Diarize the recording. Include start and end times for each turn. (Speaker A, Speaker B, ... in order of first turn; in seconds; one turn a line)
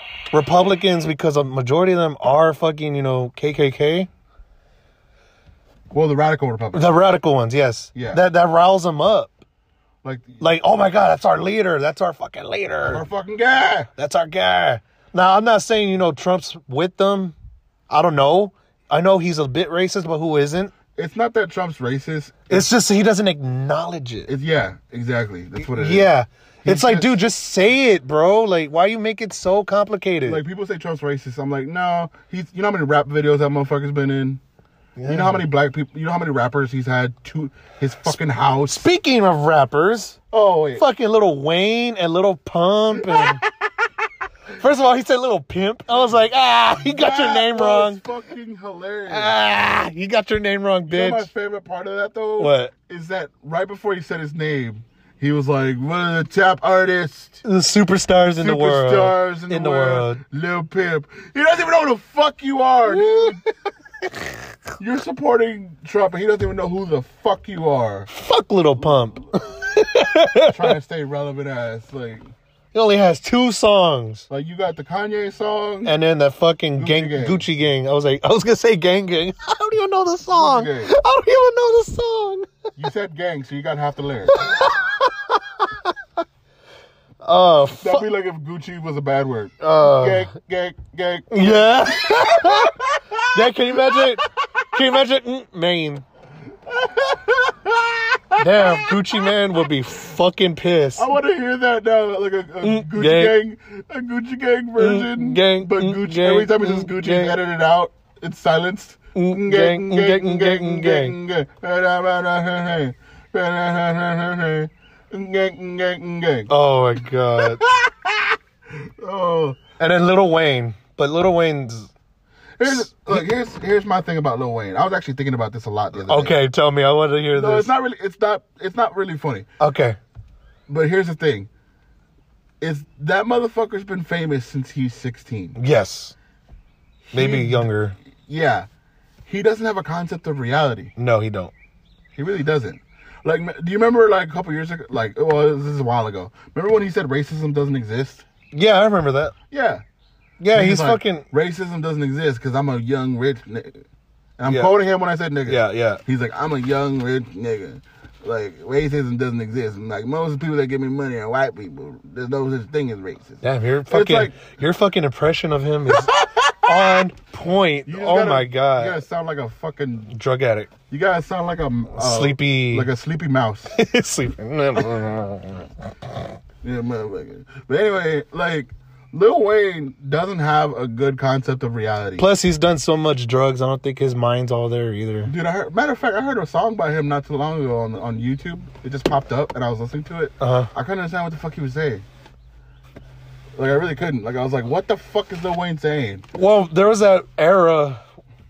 Speaker A: 0.3-4.1
Speaker B: 5.9-7.0
Speaker A: 6.7-9.3
Speaker B: 8.0-8.2
Speaker B: 10.0-10.4
Speaker A: 10.4-13.1
Speaker B: 12.8-13.9
Speaker A: 14.0-17.4
Speaker A: 17.9-20.7
Speaker B: 21.0-22.7
Speaker A: 22.5-24.3
Speaker B: 24.3-26.1
Speaker A: 25.7-30.4
Speaker B: 26.6-27.2
Speaker B: 30.2-34.4
Speaker A: 35.0-35.4
Speaker B: 35.1-38.9
Speaker A: 38.7-40.2
Speaker B: 40.3-40.9
Speaker A: 40.8-43.4
Speaker B: 43.0-43.5
Speaker A: 44.6-48.0
Speaker B: 46.8-49.4
Speaker A: 49.1-51.3
Speaker B: 50.9-57.4
Speaker A: 52.4-52.7
Speaker A: 57.4-60.2
Speaker B: 58.4-63.4
Speaker A: 62.9-63.4
Speaker B: 64.8-68.1
Speaker A: 68.1-70.8
Speaker B: 70.4-72.3
Speaker A: 72.7-74.3
Speaker B: 74.3-76.0
Speaker A: 75.8-82.5
Speaker B: 76.8-77.5
Speaker B: 80.3-80.9
Speaker B: 82.8-84.5
Speaker A: 84.3-85.9
Speaker A: 87.2-88.1
Speaker B: 87.8-94.2
Speaker A: 89.6-90.3
Speaker A: 91.3-92.8
Speaker A: 93.3-96.0
Speaker B: 96.7-99.0
Speaker A: 98.4-101.1
Speaker B: 101.0-116.5
Speaker A: 102.6-103.4
Speaker A: 104.8-107.4
Speaker A: 109.2-111.2
Speaker A: 116.5-117.6
Speaker B: 117.4-119.6
Speaker A: 119.8-121.9
Speaker B: 122.6-126.4
Speaker A: 122.6-123.3
Speaker A: 126.0-127.7
Speaker B: 127.3-129.5
Speaker A: 129.6-130.0
Speaker B: 130.7-131.5
Speaker B: 132.6-135.6
Speaker A: 135.6-136.2
Speaker B: 137.1-138.7
Speaker A: 137.1-137.9
Speaker B: 139.2-140.9
Speaker A: 141.0-141.5
Speaker B: 142.2-148.3
Speaker A: 148.5-149.3
Speaker B: 149.5-149.8
Speaker A: 150.4-151.3
Speaker B: 150.5-153.8
Speaker B: 154.4-164.4
Speaker A: 154.5-154.7
Speaker A: 155.5-156.0
Speaker A: 163.4-169.0
Speaker B: 166.0-166.5
Speaker B: 167.9-170.1
Speaker A: 170.1-170.7
Speaker B: 170.9-173.8
Speaker A: 171.9-172.9
Speaker A: 173.7-175.7
Speaker B: 176.6-182.3
Speaker A: 182.2-185.3
Speaker B: 185.3-192.0
Speaker A: 190.4-190.7
Speaker B: 193.6-196.2
Speaker A: 196.3-198.0